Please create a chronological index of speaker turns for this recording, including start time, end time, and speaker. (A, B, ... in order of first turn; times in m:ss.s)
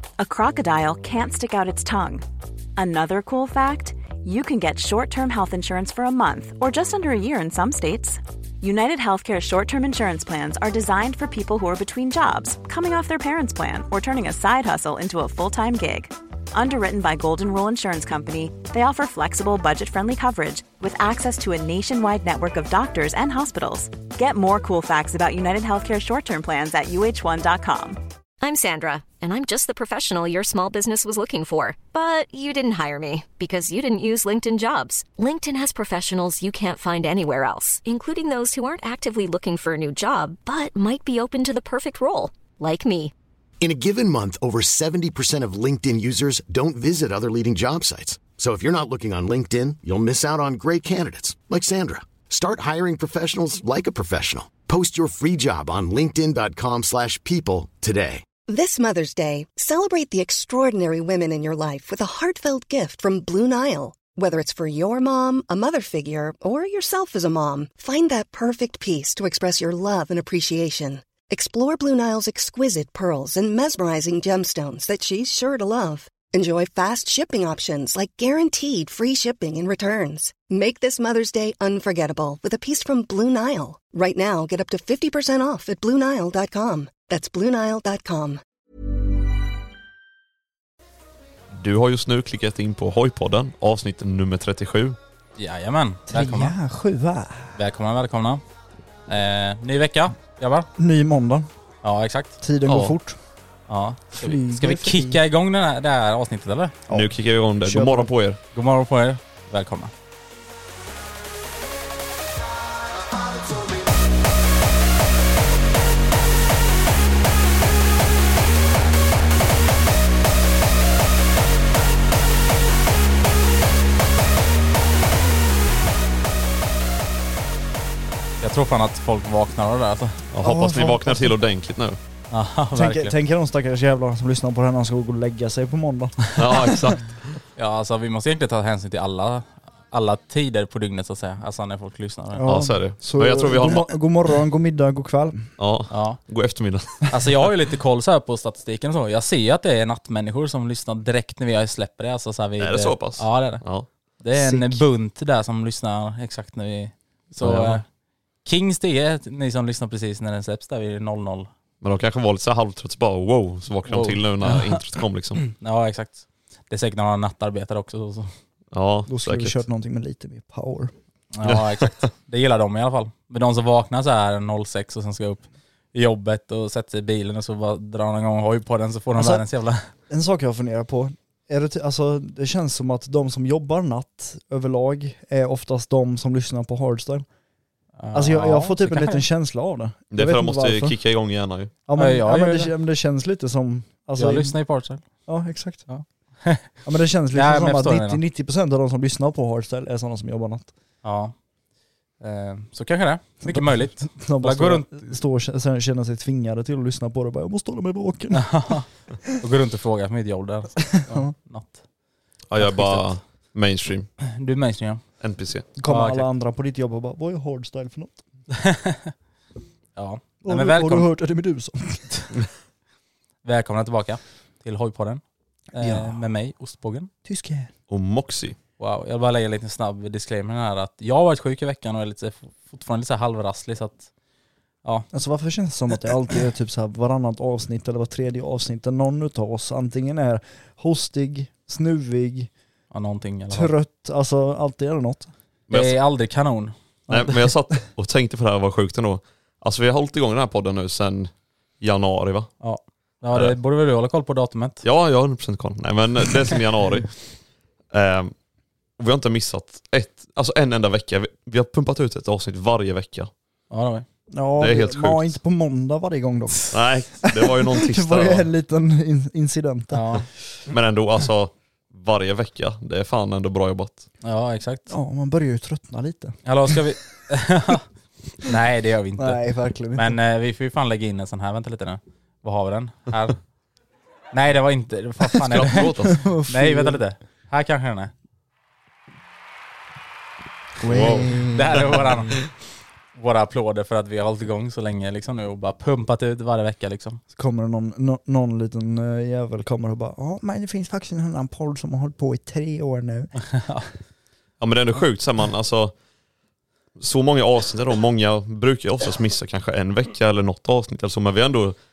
0:00.2-0:02.2 A
0:02.8-0:28.0 A
0:28.4-0:43.1 B
0:43.6-0:58.2 C
0:58.5-1:28.4 D
1:31.5-1:35.0 E
1:35.4-1:36.6 F
1:36.1-1:37.6 G
1:37.5-1:38.4 F
1:39.1-1:40.7 F
1:40.8-1:41.5 G
1:41.8-1:43.0 F
1:42.4-1:43.2 G
1:43.7-1:46.8 F
1:44.1-1:45.2 G
1:46.9-1:48.1 G
1:46.9-1:48.4 E
1:48.5-1:49.9 F
2:08.4-2:10.2 F
2:10.3-2:12.0 E
2:10.4-2:11.4 G
2:12.3-2:13.1 F
2:12.7-2:17.0 G
2:16.4-2:17.1 E
2:17.6-2:22.5 F
2:22.3-2:25.5 G
2:22.4-2:23.9 E
2:25.6-2:27.1 E
2:25.9-2:26.2 F
2:27.1-2:33.6 F
2:32.6-2:33.9 E
2:34.2-2:37.8 F
2:34.3-2:34.8 G
2:37.4-2:37.8 E
2:38.4-2:41.5 F
2:41.8-2:45.4 E
2:43.9-2:44.8 F
2:45.4-2:48.3 F
2:48.7-2:49.6 E
2:49.1-2:50.9 G
2:51.3-2:59.9 F
2:51.4-2:52.0 E
2:59.2-2:59.4 G
3:00.1-3:07.3 G
3:08.0-3:09.2 F
3:08.1-3:11.0 G
3:10.1-3:11.7 E
3:11.8-3:14.6 G
3:12.0-3:12.7 F
3:14.2-3:15.0 F
3:15.3-3:15.9 G
3:15.9-3:16.7 F
3:16.8-3:20.7 G
3:17.3-3:18.2 F
3:21.0-3:21.3 F
3:22.2-3:25.2 F
3:23.4-3:28.7 G
3:28.3-3:31.8 F
3:32.5-3:34.1 E
3:32.6-3:33.1 F
3:34.2-3:35.0 F
3:35.2-3:35.6 E
3:35.8-3:38.2 G
3:35.9-3:36.3 F
3:38.5-3:39.1 F
3:40.0-3:41.1 F
3:40.4-3:42.3 G
3:43.4-3:45.2 F
3:45.7-3:47.1 F
3:45.8-3:46.3 G
3:47.2-3:47.7 G
3:47.9-3:48.6 E
3:48.8-3:54.1 F
3:55.1-4:02.5 G
4:02.9-4:03.7 F
4:03.5-4:05.3 G
4:05.7-4:06.0 E
4:05.7-4:06.7 F
4:07.1-4:07.5 G
4:07.1-4:12.5 E
4:12.6-4:14.8 F
4:14.8-4:17.1 E
4:17.9-4:18.3 E
4:19.0-4:23.3 E
4:23.7-4:24.0 F
4:24.3-4:30.3 G
4:24.6-4:25.4 E
4:26.7-4:28.5 E
4:29.9-4:30.3 F
4:30.7-4:34.1 E
4:34.2-4:34.9 F
4:34.9-4:36.8 G
4:36.4-4:37.8 F
4:38.4-4:39.4 F
4:39.2-4:40.2 G
4:39.9-4:43.4 F
4:44.3-4:45.9 F
4:45.4-4:46.2 E
4:45.7-4:47.0 G
4:46.5-4:48.1 F
4:50.8-4:52.2 G
4:50.8-4:51.5 E
4:51.5-4:52.5 F
4:53.1-4:57.2 F
4:57.3-5:03.3 G
5:03.4-5:03.9 F
5:04.6-5:05.9 E
5:07.0-5:11.7 E